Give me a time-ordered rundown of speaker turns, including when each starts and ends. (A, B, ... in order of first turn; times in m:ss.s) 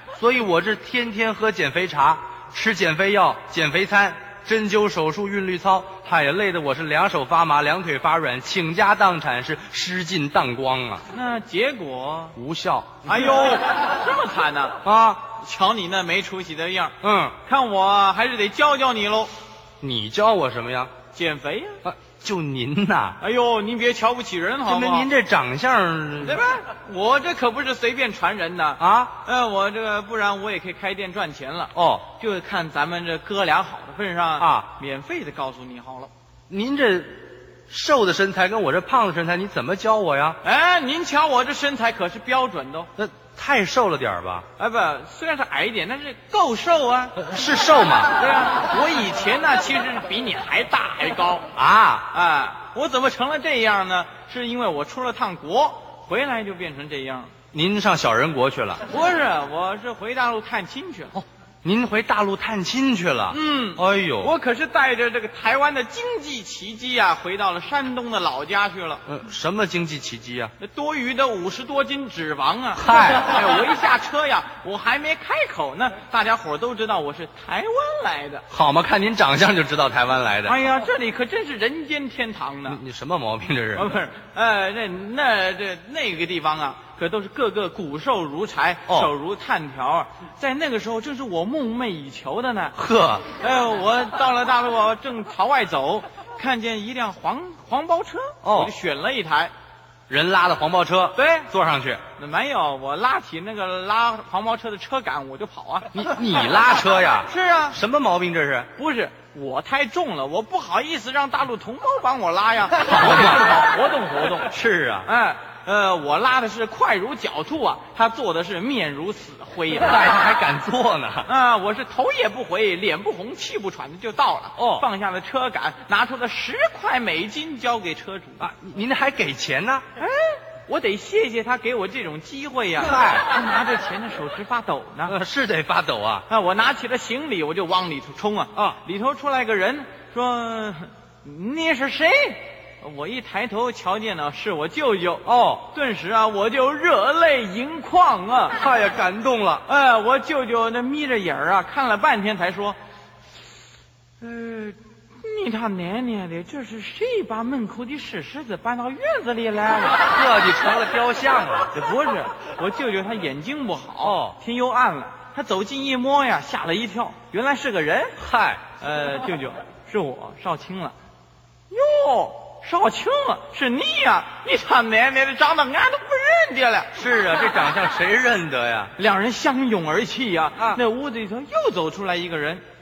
0:00.2-0:11.0 A
0:11.1-0:12.4 B
0:12.4-0:13.2 A
0:13.0-0:14.8 B
0:14.8-0:15.2 A
0:15.3-0:19.3 B
0:17.0-0:17.4 A
0:19.8-0:20.9 A
0:21.1-0:21.8 B
0:21.8-0:23.2 A
0:23.2-0:25.1 B
0:24.7-0:26.4 A
0:26.2-0:36.1 B
0:28.8-0:29.2 A
0:31.8-0:32.1 A
0:34.4-0:34.7 A
0:36.5-0:40.4 A
0:40.4-0:42.9 B
0:43.0-0:44.4 A
0:44.6-0:47.2 B
0:47.2-0:48.1 A
0:48.2-0:51.5 B
0:51.6-0:52.1 A
0:52.1-0:57.3 B
0:57.5-0:58.8 A
0:58.9-1:01.2 B
1:01.6-1:04.3 A
1:03.3-1:09.0 B
1:09.1-1:10.5 A
1:10.6-1:18.4 B
1:12.8-1:13.4 A
1:18.5-1:20.6 A
1:20.5-1:22.8 B
1:22.7-1:23.9 A
1:23.8-1:32.8 B
1:32.8-1:33.3 A
1:33.3-1:39.5 B
1:38.4-1:38.7 A
1:40.1-1:42.0 A
1:41.2-1:41.5 B
1:42.2-1:45.9 B
1:45.9-1:48.7 A
1:47.3-1:47.8 B
1:48.8-1:54.5 B
1:52.8-1:53.5 A
1:54.5-1:55.1 A
1:55.0-2:00.0 B
1:59.8-2:01.3 A
2:01.3-2:08.5 B
2:04.6-2:04.9 A
2:08.4-2:09.8 A
2:10.0-2:15.2 B
2:12.8-2:13.2 A
2:15.1-2:16.3 A
2:16.3-2:28.6 B
2:25.3-2:25.6 A
2:28.6-2:29.6 A
2:29.7-2:32.8 B
2:34.2-2:40.0 B
2:40.0-2:41.7 A
2:41.7-2:48.2 B
2:44.0-2:44.4 A
2:48.2-2:48.6 A
2:48.8-2:51.0 B
2:51.7-2:56.9 B
2:56.9-2:58.9 A
2:59.0-3:02.6 B